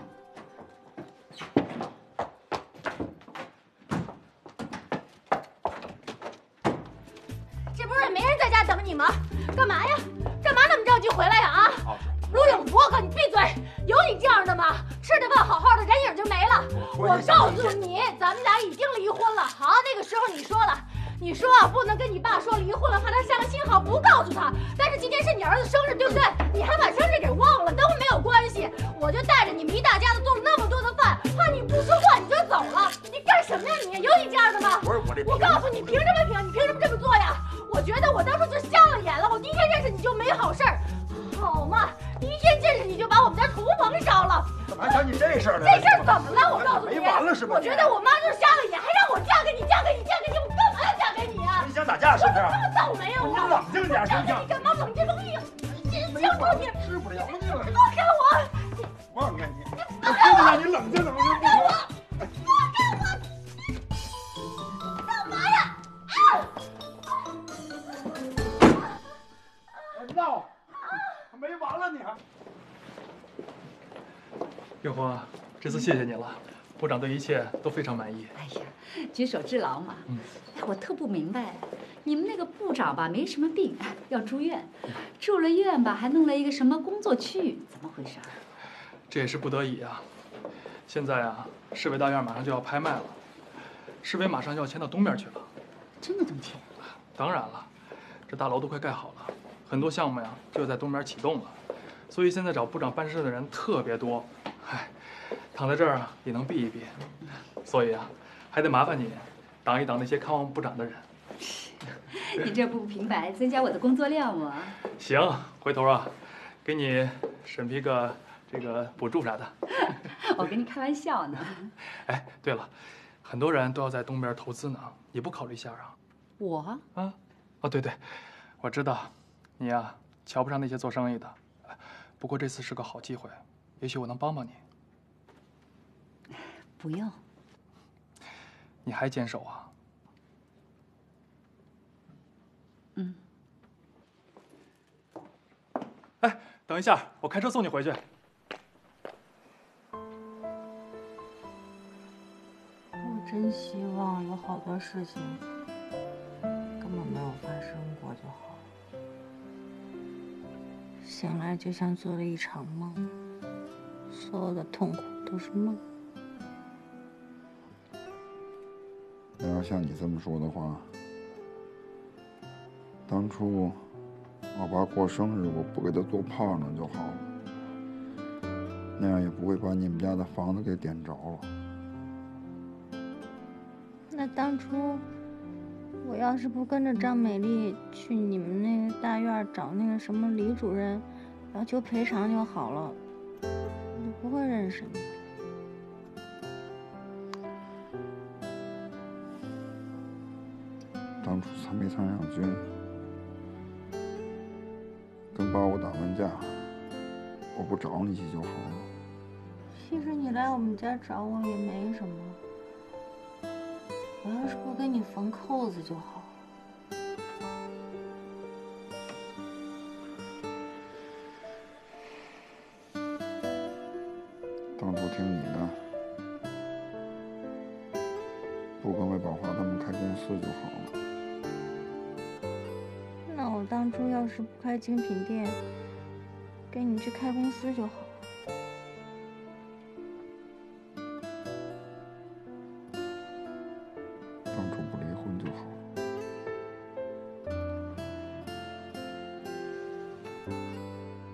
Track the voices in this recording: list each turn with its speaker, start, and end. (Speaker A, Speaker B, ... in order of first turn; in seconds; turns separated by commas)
Speaker A: 7.7-45.0, Speaker B: 11.8-12.6, Speaker B: 16.9-17.8, Speaker B: 34.8-36.0, Speaker B: 44.7-48.0, Speaker A: 45.5-56.8, Speaker B: 51.5-52.6, Speaker B: 53.1-54.5, Speaker B: 55.7-57.8, Speaker A: 57.6-58.9, Speaker B: 59.1-61.8, Speaker A: 60.0-60.6, Speaker A: 65.1-65.7, Speaker C: 74.8-78.3, Speaker D: 78.3-88.4, Speaker C: 89.1-90.0, Speaker C: 90.9-93.2, Speaker C: 94.0-95.5, Speaker D: 96.0-96.7, Speaker C: 97.1-97.7, Speaker C: 98.3-101.6, Speaker C: 102.1-107.0, Speaker C: 107.6-111.0, Speaker D: 111.4-114.8, Speaker C: 114.8-120.0, Speaker D: 120.2-121.7, Speaker C: 121.8-122.7, Speaker C: 123.2-125.9, Speaker D: 126.4-126.8, Speaker C: 126.9-134.6, Speaker D: 136.8-137.2, Speaker C: 138.8-139.7, Speaker C: 146.2-148.0, Speaker E: 153.0-155.4, Speaker E: 156.8-158.6, Speaker E: 161.0-163.1, Speaker E: 164.1-165.8, Speaker F: 169.4-170.9, Speaker F: 173.1-173.9, Speaker F: 174.5-177.2, Speaker F: 178.9-181.5, Speaker E: 184.1-185.0, Speaker E: 186.0-193.0, Speaker E: 193.9-195.2, Speaker F: 201.2-202.7, Speaker F: 205.3-206.8, Speaker F: 207.5-208.9, Speaker E: 209.7-212.4, Speaker E: 214.2-216.4, Speaker F: 224.7-225.9, Speaker F: 228.8-230.9, Speaker E: 233.2-235.6, Speaker E: 236.7-238.2, Speaker F: 244.5-245.8